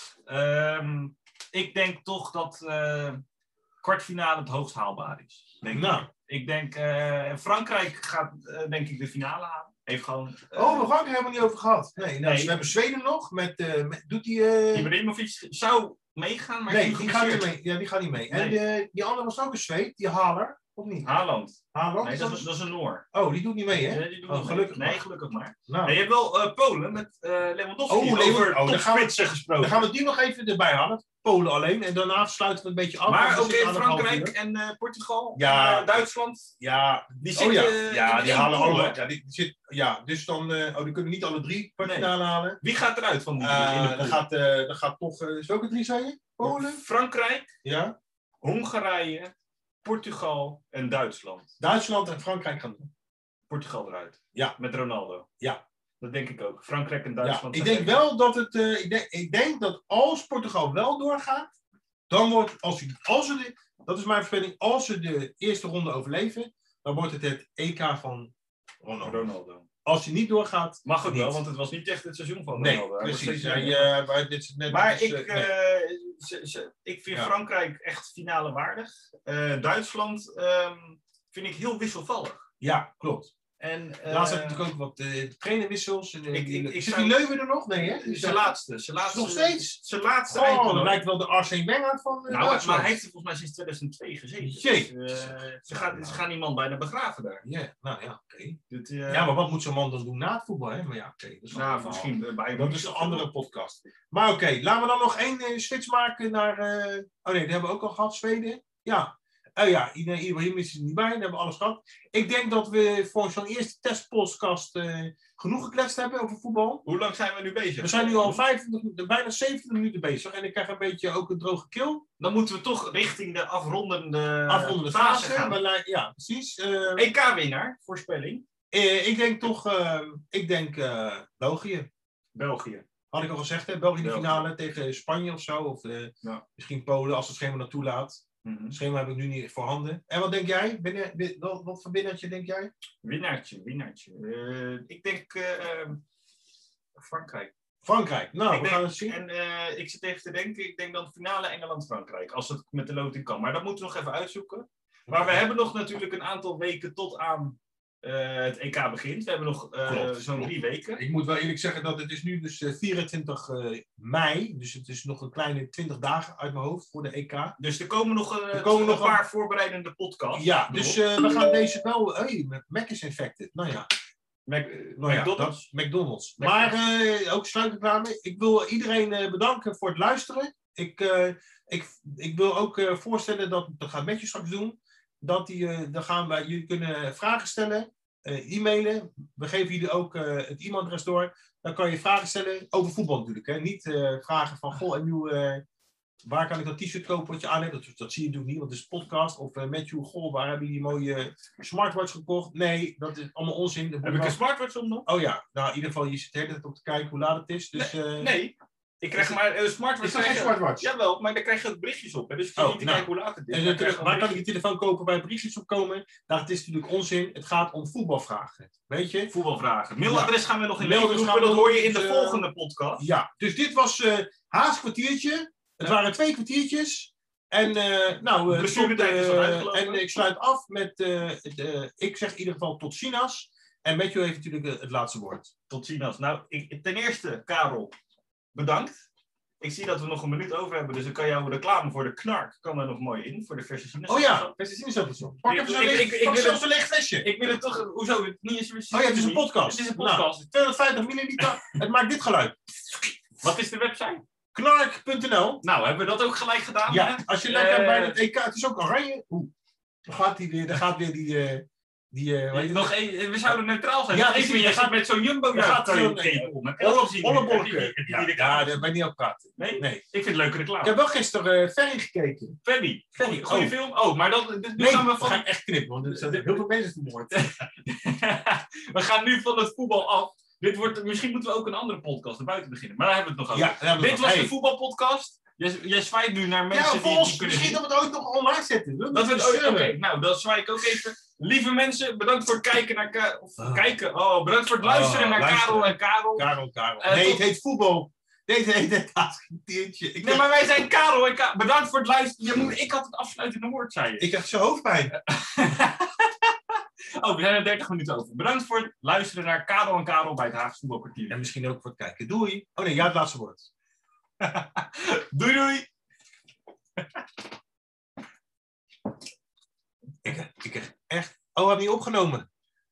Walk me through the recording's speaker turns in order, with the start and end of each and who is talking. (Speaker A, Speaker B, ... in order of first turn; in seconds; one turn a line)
Speaker A: 0.3-3.2
Speaker A: 3.8-10.9
Speaker B: 5.6-6.1
Speaker B: 10.6-14.9
Speaker A: 12.0-12.7
Speaker A: 14.7-17.5
Speaker B: 16.7-21.1
Speaker A: 18.3-18.6
Speaker A: 21.0-23.1
Speaker B: 21.7-22.5
Speaker B: 23.1-25.0
Speaker A: 23.8-29.9
Speaker B: 25.7-26.0
Speaker B: 27.9-34.3
Speaker A: 33.1-36.5
Speaker B: 35.4-36.0
Speaker B: 36.6-42.6
Speaker A: 37.2-39.0
Speaker A: 41.8-44.2
Speaker B: 43.4-46.8
Speaker A: 46.4-47.5
Speaker B: 47.6-48.0
Speaker A: 48.4-49.3
Speaker A: 49.8-51.5
Speaker B: 51.6-52.9
Speaker A: 53.5-55.3
Speaker A: 56.0-58.0
Speaker B: 57.2-61.5
Speaker B: 62.1-69.3
Speaker A: 69.0-69.7
Speaker B: 69.8-71.4
Speaker A: 70.8-73.9
Speaker B: 72.5-75.5
Speaker A: 74.7-82.5
Speaker B: 82.6-83.3
Speaker A: 83.6-84.6
Speaker B: 84.1-88.4
Speaker A: 86.3-87.2
Speaker A: 87.8-91.0
Speaker B: 89.0-89.8
Speaker B: 90.3-93.0
Speaker A: 92.3-97.4
Speaker B: 94.4-96.2
Speaker B: 97.5-98.6
Speaker A: 98.7-99.3
Speaker B: 99.1-116.8
Speaker A: 101.5-103.3
Speaker A: 116.8-118.4
Speaker B: 117.8-122.0
Speaker A: 122.2-125.6
Speaker B: 124.5-127.1
Speaker A: 127.0-128.4
Speaker B: 128.7-131.9
Speaker A: 132.3-132.9
Speaker B: 133.1-142.7
Speaker A: 134.0-134.5
Speaker A: 138.4-138.8
Speaker A: 143.0-146.0
Speaker A: 147.0-147.5
Speaker B: 147.8-149.2
Speaker A: 148.5-161.0
Speaker B: 155.1-155.4
Speaker B: 159.9-167.6
Speaker A: 167.6-171.0
Speaker B: 168.5-169.2
Speaker B: 170.3-173.9
Speaker A: 174.5-175.7
Speaker B: 175.0-195.6
Speaker A: 176.4-176.7
Speaker B: 196.2-204.4
Speaker A: 204.0-205.1
Speaker B: 205.1-208.3
Speaker A: 207.7-214.4
Speaker B: 210.0-210.9
Speaker B: 212.6-219.3
Speaker A: 219.3-223.1
Speaker B: 220.0-222.4
Speaker B: 223.0-235.5
Speaker A: 228.5-230.0
Speaker A: 235.7-237.9
Speaker A: 238.5-239.0
Speaker A: 239.6-244.5
Speaker B: 244.1-247.3
Speaker A: 245.5-246.6
Speaker A: 247.2-250.5
Speaker B: 248.9-252.7
Speaker A: 251.4-251.8
Speaker A: 253.4-254.2
Speaker B: 254.5-255.6
Speaker A: 255.6-258.2
Speaker B: 256.9-259.5
Speaker B: 260.1-262.9
Speaker A: 262.5-268.9
Speaker B: 264.1-265.0
Speaker B: 265.5-270.0
Speaker A: 269.6-270.9
Speaker B: 270.8-272.6
Speaker A: 272.6-275.4
Speaker B: 273.2-273.8
Speaker B: 274.8-277.5
Speaker A: 276.1-276.6
Speaker A: 277.4-287.8
Speaker B: 283.5-284.5
Speaker B: 286.7-290.0
Speaker A: 289.1-296.5
Speaker B: 293.6-293.9
Speaker B: 294.8-300.5
Speaker A: 297.0-297.4
Speaker A: 300.2-304.3
Speaker B: 304.2-305.1
Speaker A: 305.1-311.5
Speaker B: 311.3-313.7
Speaker A: 314.4-315.9
Speaker A: 317.0-317.2
Speaker B: 320.2-322.5